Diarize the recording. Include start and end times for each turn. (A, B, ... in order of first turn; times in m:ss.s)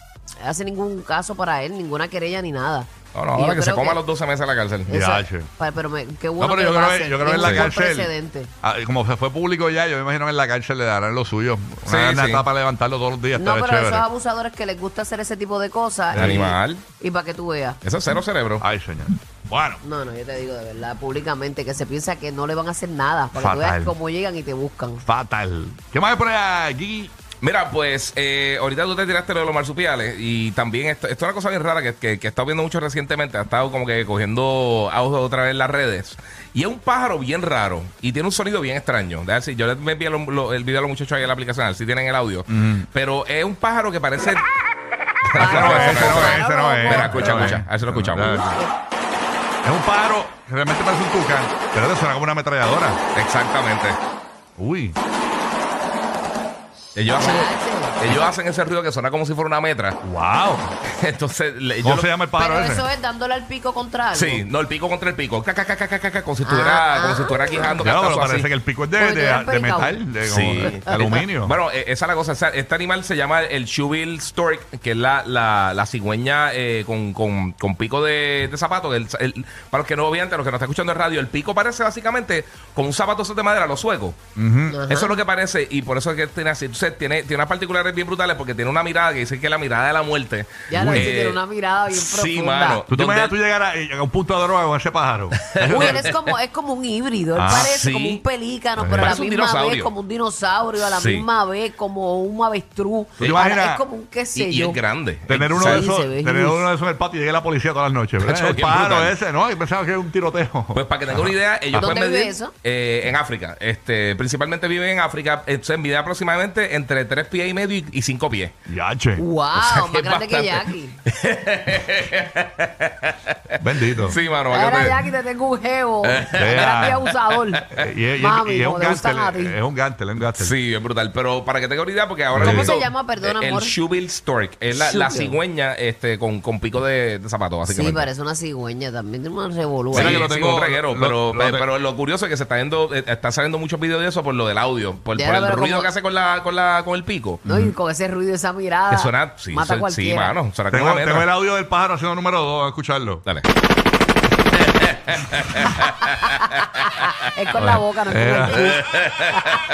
0:00.4-0:04.0 A
0:03.1-0:04.9 B
0:04.9-0:08.5 A
0:04.9-0:05.5 C
0:06.4-0:14.0 C
0:11.8-0:12.4 B
0:13.3-0:17.8 A
0:16.1-0:16.4 C
0:16.1-0:16.8 B
0:17.8-0:18.6 B
0:18.6-0:19.8 C
0:19.8-0:25.0 A
0:23.3-0:23.9 C
0:25.0-0:27.1 C
0:27.4-0:44.4 B
0:42.5-0:42.9 C
0:45.3-0:48.4 B
0:45.4-0:47.6 A
0:45.4-0:48.6 C
0:48.1-0:48.7 A
0:49.6-0:53.0 C
0:53.1-0:54.0 B
0:54.6-0:55.0 C
0:56.9-1:00.0 B
0:57.1-0:58.0 A
1:00.0-1:00.7 C
1:01.0-1:02.1 B
1:01.8-1:02.8 C
1:02.4-1:04.4 A
1:04.1-1:08.5 B
1:06.4-1:07.8 A
1:07.8-1:11.6 C
1:09.0-1:10.0 A
1:10.2-1:24.2 B
1:10.6-1:11.1 A
1:24.4-1:24.8 C
1:24.7-1:25.2 A
1:24.9-1:31.4 B
1:30.7-1:32.8 A
1:30.7-1:31.1 C
1:31.9-1:33.4 B
1:32.9-1:36.1 C
1:35.6-1:36.1 B
1:35.6-1:44.8 A
1:37.3-1:37.7 C
1:37.5-1:38.2 B
1:38.8-1:39.2 C
1:38.9-1:39.9 B
1:40.9-1:41.3 B
1:43.2-1:43.8 C
1:44.3-1:45.8 B
1:45.3-1:51.9 C
1:45.5-1:46.7 A
1:48.2-1:49.1 B
1:50.7-1:58.5 B
1:51.7-1:52.5 A
1:58.7-1:59.3 C
1:59.2-2:01.0 A
1:59.6-2:03.4 B
2:03.6-2:04.2 C
2:04.0-2:05.0 B
2:04.5-2:07.6 A
2:06.0-2:06.9 B
2:06.4-2:07.1 C
2:07.7-2:10.5 C
2:08.2-2:09.5 A
2:10.4-2:18.1 B
2:12.3-2:12.8 C
2:12.3-2:13.8 A
2:14.7-2:15.4 A
2:17.6-2:20.2 A
2:19.9-2:21.7 C
2:19.9-2:27.4 B
2:25.2-2:25.9 A
2:27.4-2:27.8 C
2:27.4-2:30.4 A
2:28.9-2:31.3 B
2:30.7-2:33.2 C
2:34.9-2:35.8 B
2:36.0-2:39.4 A
2:37.5-2:38.8 C
2:38.5-2:39.1 B